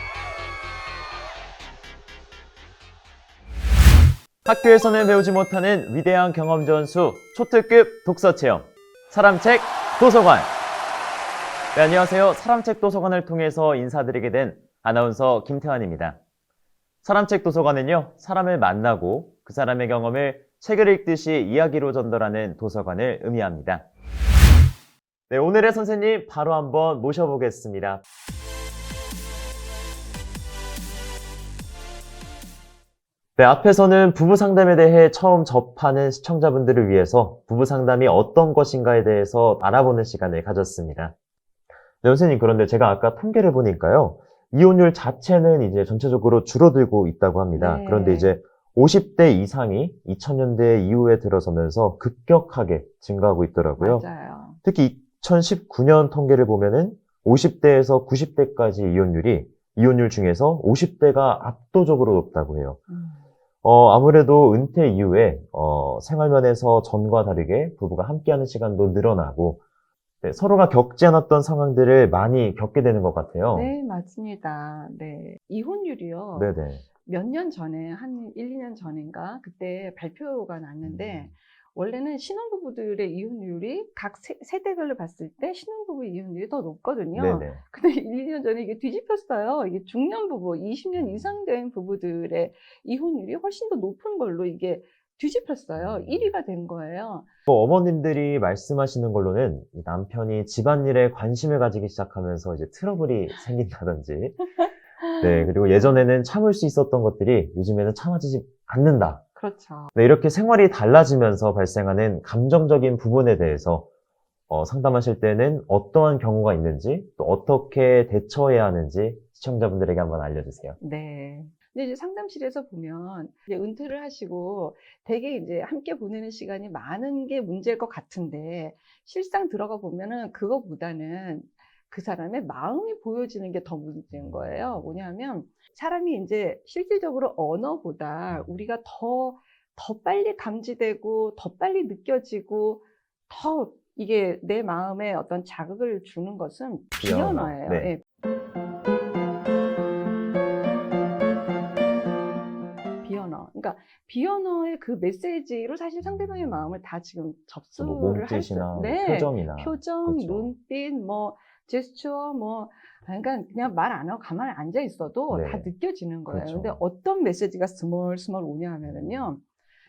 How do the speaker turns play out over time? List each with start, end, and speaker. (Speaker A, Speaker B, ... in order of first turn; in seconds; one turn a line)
Speaker A: 4.4-10.5
Speaker A: 11.7-16.2
Speaker A: 17.0-23.9
Speaker A: 25.3-28.0
Speaker A: 33.4-41.1
Speaker A: 42.0-54.1
Speaker B: 47.5-48.3
Speaker B: 53.8-54.6
Speaker A: 54.6-62.8
Speaker B: 62.9-63.2
Speaker A: 63.6-69.6
Speaker A: 70.2-73.7
Speaker B: 73.5-97.3
Speaker A: 76.3-76.8
Speaker A: 80.8-81.3
Speaker A: 87.1-87.6
Speaker A: 90.9-91.4
Speaker A: 95.8-96.3
Speaker A: 97.5-104.4
Speaker B: 105.0-106.0
Speaker A: 105.2-109.2
Speaker B: 109.4-109.9
Speaker A: 109.9-113.9
Speaker A: 114.5-120.8
Speaker B: 120.8-148.0
Speaker A: 134.1-135.0
Speaker A: 138.3-138.6
Speaker A: 147.0-147.9
Speaker B: 153.0-169.4
Speaker A: 156.0-156.7
Speaker A: 157.8-160.5
Speaker A: 165.3-165.7
Speaker A: 166.3-166.8
Speaker A: 168.8-169.3